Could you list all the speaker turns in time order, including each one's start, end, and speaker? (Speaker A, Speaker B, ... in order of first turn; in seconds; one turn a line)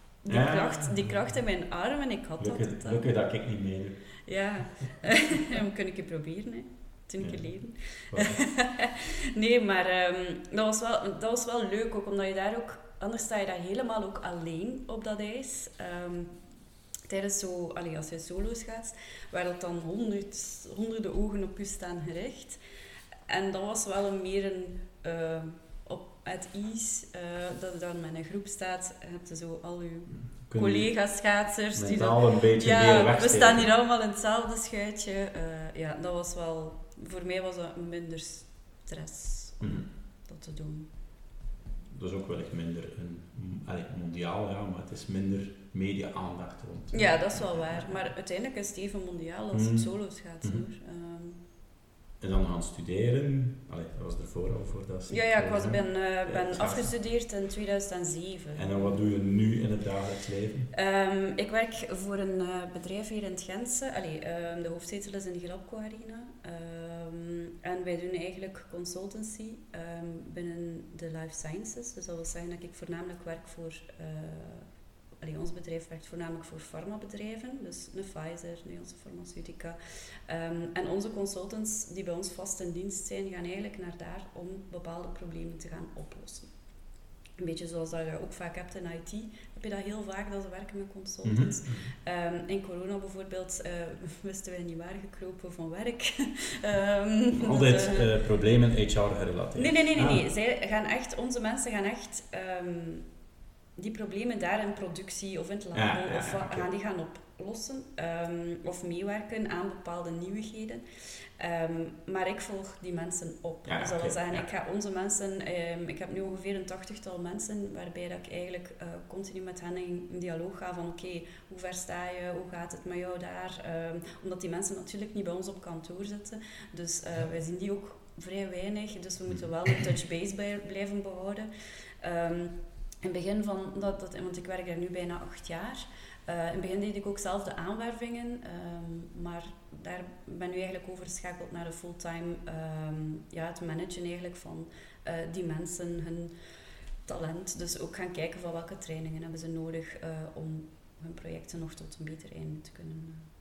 Speaker A: 0.2-3.0
Speaker B: 0.3-1.1
Speaker B: 2.4-4.0
Speaker A: 4.3-16.3
Speaker B: 8.1-8.4
Speaker A: 17.1-22.6
Speaker A: 23.3-39.8
Speaker B: 30.5-30.9
Speaker B: 31.8-33.7
Speaker B: 39.6-39.9
Speaker A: 40.3-40.9
Speaker B: 41.9-48.0
Speaker A: 46.9-51.4
Speaker B: 49.5-49.9
Speaker B: 52.2-56.9
Speaker A: 55.1-59.0
Speaker B: 58.5-60.7
Speaker A: 60.7-74.7
Speaker A: 75.2-86.5
Speaker A: 87.4-98.1
Speaker B: 91.2-91.8
Speaker B: 97.3-100.2
Speaker A: 99.5-103.0
Speaker A: 103.8-110.8
Speaker B: 105.7-106.7
Speaker A: 111.4-131.5
Speaker B: 113.7-114.5
Speaker A: 132.0-146.3
Speaker A: 147.1-153.3